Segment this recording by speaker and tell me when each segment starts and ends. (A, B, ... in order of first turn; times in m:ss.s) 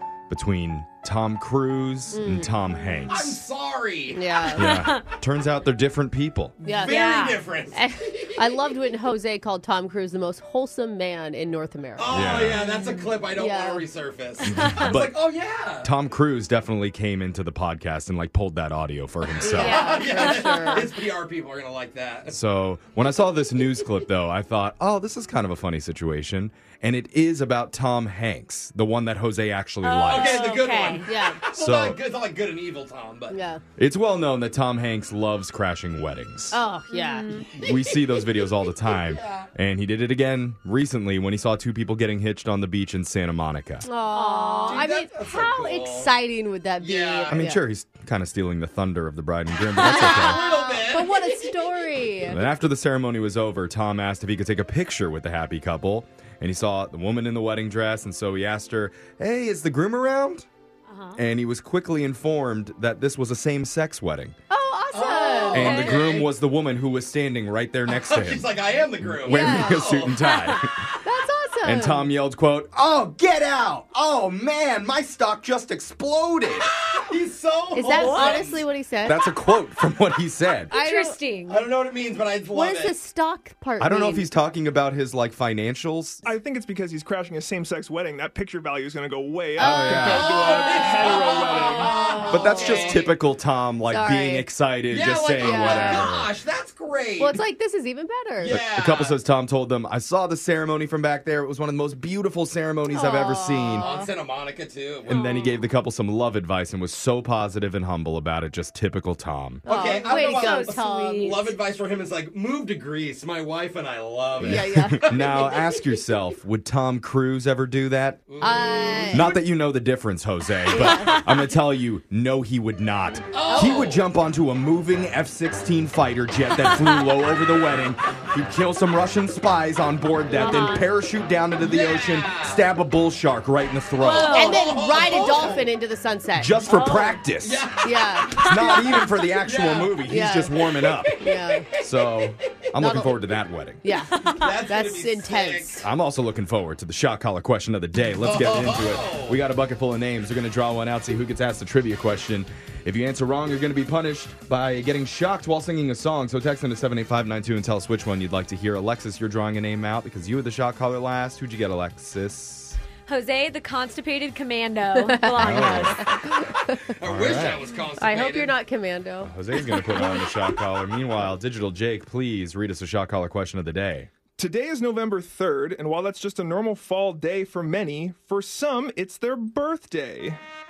0:00.3-0:03.4 A
0:02.1-0:02.6 B
0:03.1-0:04.3 C
0:04.1-0:04.8 B
0:04.6-0:06.6 A
0:04.7-0:05.0 D
0:06.6-0:13.9 B
0:06.6-0:08.3 C
0:06.8-0:07.4 D
0:12.0-0:15.9 C
0:12.1-0:12.6 A
0:12.6-0:13.0 D
0:14.5-0:15.2 A
0:15.8-0:19.8 A
0:19.4-0:22.4 C
0:19.4-0:20.9 B
0:20.2-0:20.7 D
0:22.3-0:30.5 A
0:29.8-0:31.1 D
0:30.1-0:33.4 C
0:31.0-0:31.4 B
0:31.5-0:32.0 A
0:33.3-0:33.6 B
0:33.8-0:36.6 A
0:36.5-0:37.4 B
0:36.9-0:37.5 D
0:37.6-0:43.8 A
0:37.7-0:37.9 C
0:38.9-0:39.5 C
0:43.8-0:47.6 B
0:44.1-0:44.9 D
0:44.7-0:46.1 C
0:46.8-0:47.4 C
0:47.3-0:50.4 A
0:49.8-0:51.2 C
0:49.8-0:52.4 B
0:49.9-0:50.4 D
0:52.3-1:00.5 A
1:00.9-1:01.2 D
1:01.2-1:04.4 A
1:04.5-1:05.9 B
1:04.9-1:06.3 C
1:05.5-1:10.9 A
1:05.6-1:06.0 D
1:07.9-1:10.3 C
1:09.2-1:09.9 B
1:10.3-1:10.6 D
1:11.0-1:12.1 B
1:11.6-1:16.7 A
1:16.9-1:18.6 C
1:17.7-1:19.3 B
1:17.8-1:18.5 D
1:19.0-1:20.7 A
1:20.7-1:21.2 B
1:20.7-1:21.7 D
1:21.5-1:22.9 C
1:22.5-1:24.3 B
1:23.8-1:26.2 A
1:26.2-1:31.9 E
1:29.6-1:30.1 B
1:29.6-1:30.3 A
1:30.1-1:33.1 C
1:31.8-1:33.0 B
1:32.3-1:36.3 A
1:33.9-1:34.5 B
1:34.9-1:37.4 C
1:35.4-1:36.1 B
1:37.2-1:38.6 B
1:38.4-1:39.2 C
1:38.4-1:43.9 A
1:42.9-1:44.1 B
1:43.8-1:45.2 C
1:45.1-1:45.6 D
1:45.1-1:49.6 A
1:49.7-1:54.8 C
1:49.7-1:51.5 B
1:49.8-1:51.5 D
1:54.4-1:55.6 B
1:54.4-1:58.2 A
1:58.3-1:59.4 C
1:58.4-1:59.4 B
1:59.1-2:14.5 A
2:00.7-2:01.2 B
2:00.8-2:01.3 D
2:03.3-2:04.0 C
2:03.5-2:03.8 D
2:10.4-2:10.8 D
2:10.4-2:10.8 B
2:11.6-2:12.6 C
2:14.0-2:14.8 D
2:14.0-2:15.7 C
2:14.3-2:17.1 B
2:16.4-2:17.7 A
2:16.7-2:17.2 D
2:17.4-2:21.6 C
2:17.8-2:18.9 B
2:18.4-2:21.2 A
2:20.1-2:21.7 B
2:21.8-2:23.8 A
2:22.8-2:23.2 B
2:23.8-2:25.9 B
2:24.1-2:24.5 D
2:24.3-2:25.9 C
2:25.8-2:42.8 A
2:28.2-2:29.4 C
2:43.1-2:46.0 D
2:45.0-2:46.7 B
2:45.4-2:46.1 A
2:47.0-2:48.6 C
2:47.0-2:47.6 A
2:48.0-2:50.2 B
2:49.2-2:54.1 A
2:54.4-3:00.4 E